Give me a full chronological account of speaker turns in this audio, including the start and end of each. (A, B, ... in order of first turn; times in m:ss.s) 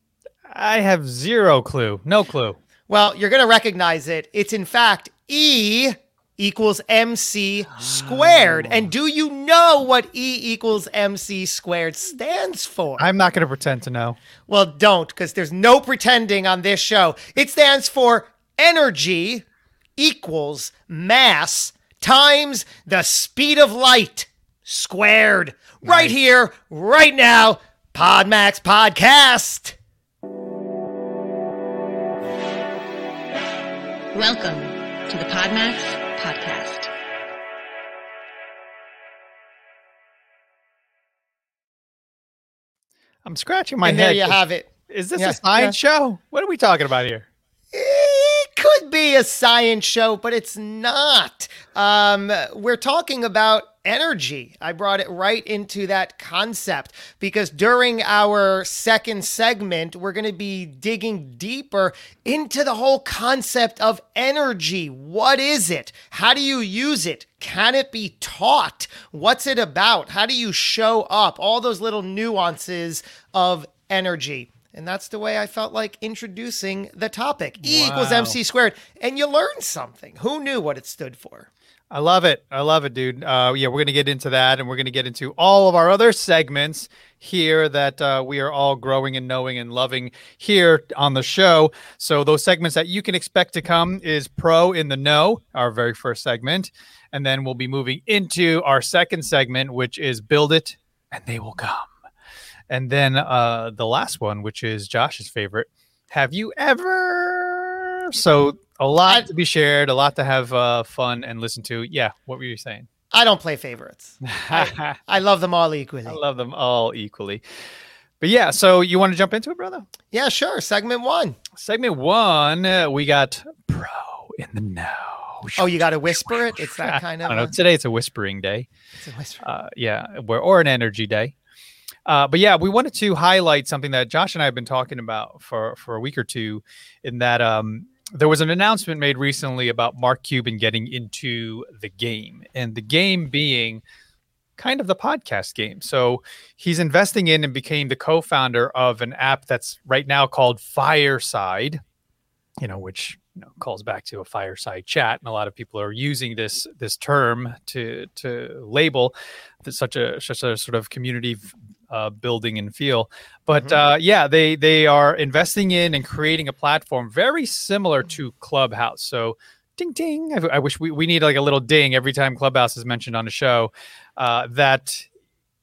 0:00.5-0:02.6 A
0:02.9-0:13.1 B
0:07.9-0:08.8 A
0:13.0-0:14.2 A
0:14.5-0:19.4 B
0:20.0-0:29.8 B
0:25.8-0:26.1 A
0:34.1-0:36.9 C
0:43.2-0:47.3 A
0:43.8-0:45.8 B
0:47.7-1:21.5 B
1:17.6-1:18.4 A
1:21.9-1:41.9 A
1:42.7-1:52.9 A
1:53.1-1:56.2 B
1:54.3-1:55.0 A
1:56.1-1:57.4 A
1:58.2-1:59.9 A
2:00.1-2:01.4 B
2:01.6-2:08.7 A
2:05.6-2:07.5 B
2:09.0-2:09.4 B
2:09.4-2:11.3 A
2:12.1-2:23.8 A
2:24.6-2:31.8 A
2:32.6-2:55.1 A